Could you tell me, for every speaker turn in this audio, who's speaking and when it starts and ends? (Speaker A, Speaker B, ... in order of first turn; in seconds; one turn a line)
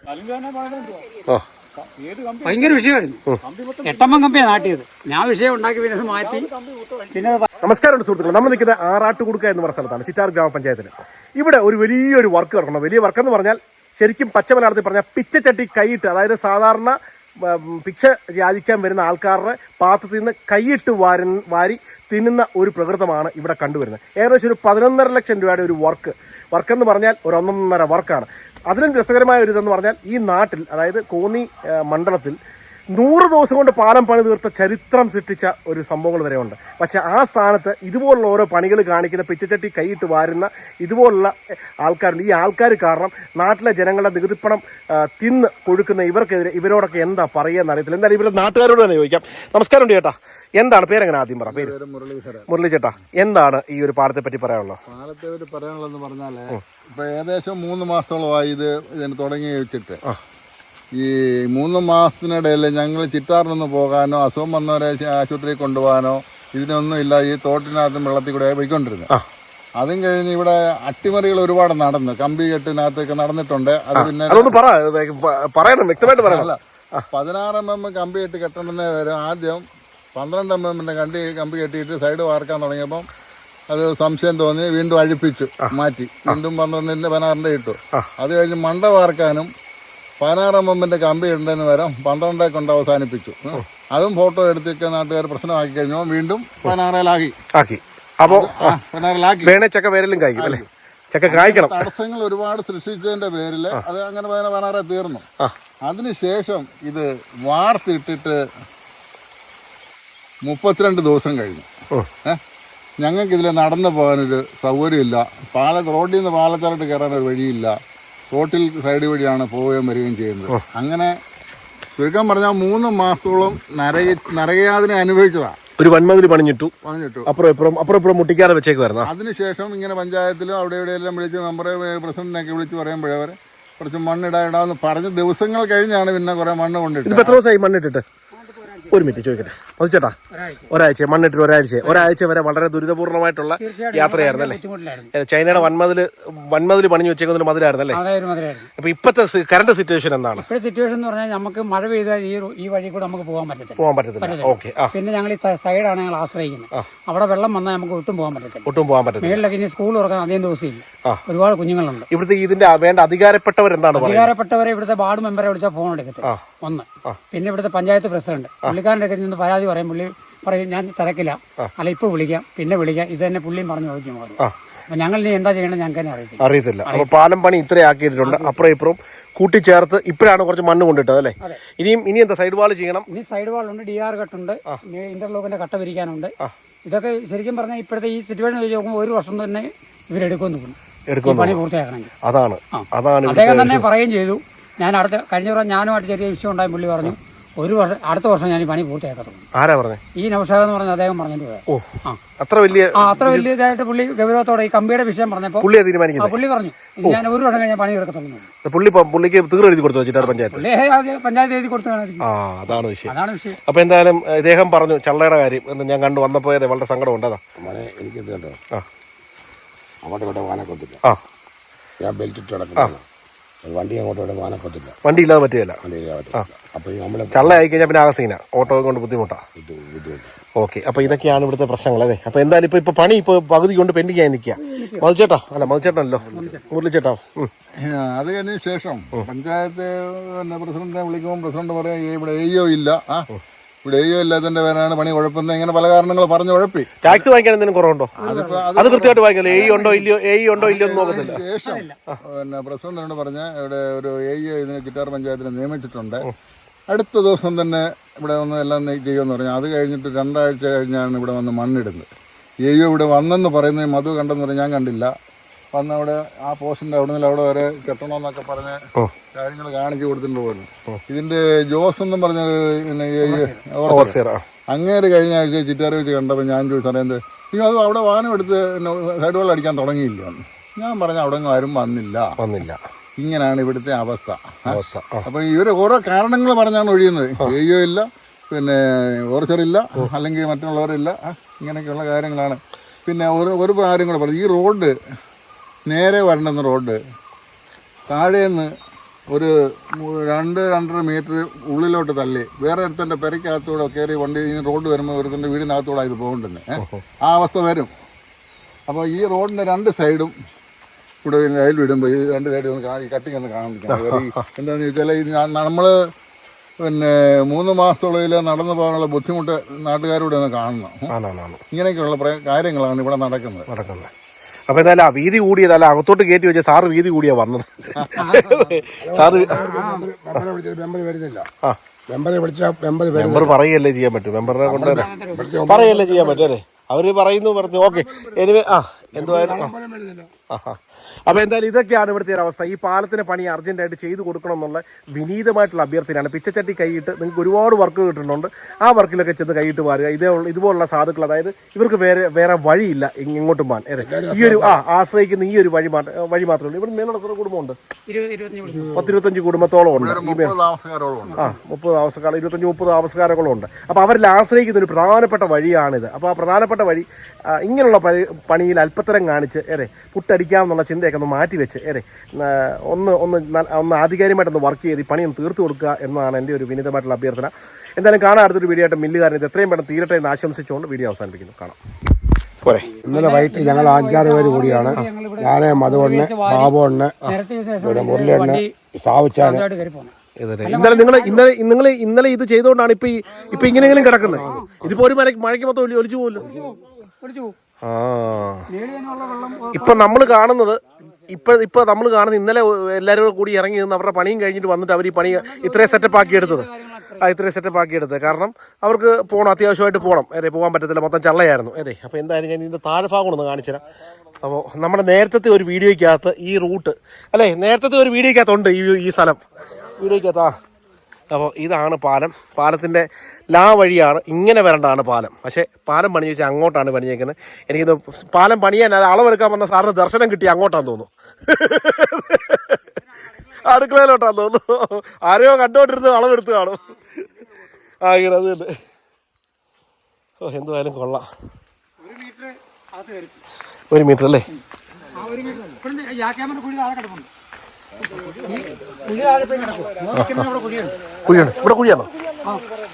Speaker A: 0.1-1.0
Speaker A: 2.4-3.2
Speaker A: 3.8-6.5
Speaker A: 7.1-7.5
Speaker B: 7.6-32.4
Speaker B: 32.9-51.7
Speaker C: 51.5-52.5
Speaker B: 52.5-54.8
Speaker C: 54.9-60.0
Speaker C: 60.9-69.1
Speaker C: 69.8-74.6
Speaker B: 74.0-77.0
Speaker C: 76.0-76.6
Speaker C: 77.1-79.6
Speaker C: 80.2-83.1
Speaker C: 83.7-89.5
Speaker C: 90.2-97.4
Speaker B: 97.5-98.8
Speaker C: 98.2-99.6
Speaker B: 99.4-101.9
Speaker C: 100.4-100.7
Speaker C: 101.3-105.2
Speaker C: 105.8-108.4
Speaker C: 110.5-111.7
Speaker C: 113.0-117.8
Speaker C: 118.3-121.2
Speaker C: 122.0-125.6
Speaker B: 125.8-126.7
Speaker C: 126.8-127.3
Speaker B: 127.3-129.1
Speaker C: 129.0-137.4
Speaker B: 137.1-138.0
Speaker A: 138.3-139.5
Speaker B: 138.9-140.2
Speaker A: 140.3-140.7
Speaker B: 140.7-144.6
Speaker A: 141.8-142.1
Speaker A: 143.6-145.7
Speaker B: 145.1-148.0
Speaker A: 147.9-148.7
Speaker B: 148.8-150.5
Speaker A: 150.4-162.1
Speaker B: 153.8-154.9
Speaker B: 158.7-159.4
Speaker B: 162.1-164.3
Speaker A: 163.9-177.1
Speaker B: 176.4-183.1
Speaker A: 178.2-178.7
Speaker A: 183.1-186.3
Speaker A: 186.8-192.1
Speaker B: 191.1-191.6
Speaker B: 192.2-193.9
Speaker A: 192.7-199.5
Speaker B: 199.6-200.0
Speaker A: 200.2-202.2
Speaker B: 201.7-203.5
Speaker A: 202.9-208.5
Speaker B: 205.6-206.4
Speaker B: 208.6-210.6
Speaker A: 210.2-213.6
Speaker B: 212.2-213.1
Speaker B: 213.7-217.4
Speaker D: 217.6-218.6
Speaker D: 220.0-221.0
Speaker D: 222.0-223.0
Speaker D: 223.6-225.0
Speaker B: 225.0-225.8
Speaker D: 225.8-227.7
Speaker B: 227.3-229.4
Speaker D: 229.6-230.3
Speaker B: 230.6-237.5
Speaker A: 234.6-235.1
Speaker A: 236.3-236.7
Speaker C: 237.8-243.3
Speaker C: 243.8-247.3
Speaker B: 247.0-248.2
Speaker A: 248.2-248.7
Speaker C: 248.2-256.3
Speaker B: 248.7-251.4
Speaker A: 249.5-250.1
Speaker A: 250.6-252.0
Speaker C: 256.9-262.1
Speaker C: 262.6-265.1
Speaker C: 265.7-268.8
Speaker C: 269.3-274.2
Speaker A: 273.2-273.6
Speaker B: 273.9-274.4
Speaker C: 274.7-282.4
Speaker B: 282.4-282.8
Speaker C: 283.2-295.0
Speaker B: 284.7-285.3
Speaker C: 295.9-297.0
Speaker C: 298.1-298.7
Speaker C: 299.3-307.9
Speaker C: 308.9-310.3
Speaker C: 311.2-316.1
Speaker B: 313.9-314.4
Speaker C: 316.8-321.1
Speaker B: 321.1-321.6
Speaker C: 321.7-323.7
Speaker B: 323.7-324.1
Speaker B: 324.7-329.7
Speaker A: 328.1-330.1
Speaker D: 329.0-331.5
Speaker D: 332.1-333.6
Speaker B: 333.1-339.8
Speaker D: 334.6-336.5
Speaker A: 334.7-335.6
Speaker C: 337.6-338.5
Speaker D: 339.1-340.3
Speaker B: 340.5-357.8
Speaker D: 354.0-354.8
Speaker A: 358.1-359.1
Speaker B: 358.9-360.6
Speaker C: 359.9-361.4
Speaker A: 361.3-361.6
Speaker B: 361.4-381.8
Speaker B: 382.6-382.9
Speaker A: 382.9-388.7
Speaker D: 383.0-387.2
Speaker D: 387.8-389.7
Speaker A: 389.4-391.5
Speaker B: 390.4-396.5
Speaker A: 393.5-394.8
Speaker D: 393.7-394.7
Speaker D: 396.4-396.8
Speaker A: 396.4-397.6
Speaker B: 397.8-398.7
Speaker A: 398.7-400.3
Speaker B: 399.7-406.7
Speaker A: 405.2-407.4
Speaker B: 407.2-413.8
Speaker B: 414.4-420.5
Speaker B: 421.3-437.4
Speaker A: 433.0-433.7
Speaker B: 438.0-438.8
Speaker B: 440.4-441.3
Speaker A: 442.0-443.4
Speaker B: 443.9-444.5
Speaker A: 445.1-447.3
Speaker C: 448.2-448.6
Speaker A: 448.4-451.1
Speaker B: 450.1-450.4
Speaker B: 451.2-452.1